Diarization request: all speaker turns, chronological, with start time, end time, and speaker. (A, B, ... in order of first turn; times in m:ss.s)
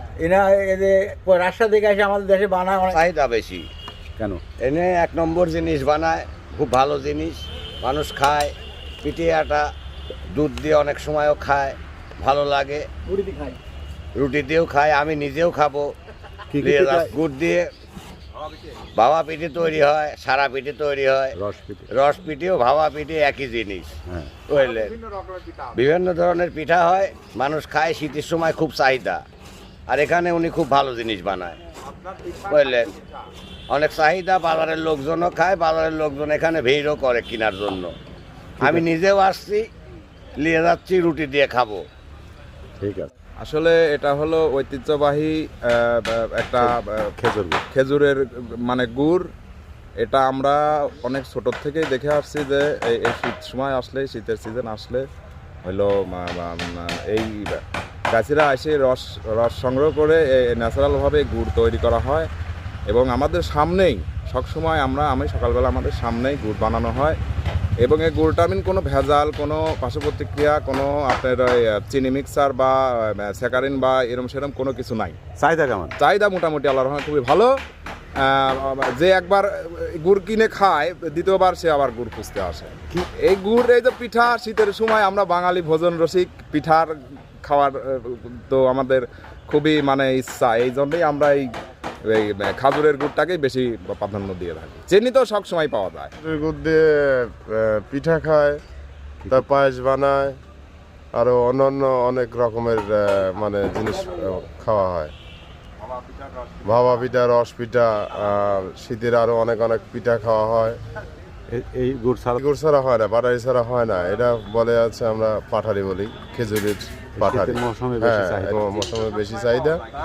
0:00.2-0:03.0 A
0:02.9-0:03.7 B
0:04.6-0:09.7 B
0:10.3-0:12.9 B
0:13.1-0:13.6 A
0:14.2-0:15.9 B
0:16.5-0:17.1 C
0:16.6-0:17.7 B
0:19.0-0:21.4 B
0:21.4-0:21.9 C
0:21.9-0:24.0 B
0:24.1-0:24.3 C
0:24.5-0:25.0 B
0:25.7-0:29.2 B
0:29.9-0:31.6 B
0:32.3-0:33.0 B
0:33.7-0:38.0 B
0:38.6-0:38.9 C
0:38.6-0:39.6 B
0:40.4-0:41.8 B
0:42.8-0:43.1 C
0:43.4-0:47.1 D
0:46.6-0:47.6 C
0:47.7-0:49.3 D
0:50.0-0:55.1 D
0:55.6-1:02.3 D
1:02.9-1:07.2 D
1:07.8-1:15.2 D
1:15.4-1:16.0 C
1:16.0-1:17.5 D
1:18.2-1:31.5 D
1:32.1-1:36.1 D
1:36.2-1:38.6 E
1:39.3-1:40.4 E
1:41.1-1:45.1 E
1:46.6-1:50.8 E
1:51.5-1:52.4 C
1:52.4-1:59.8 E
1:57.2-1:58.6 C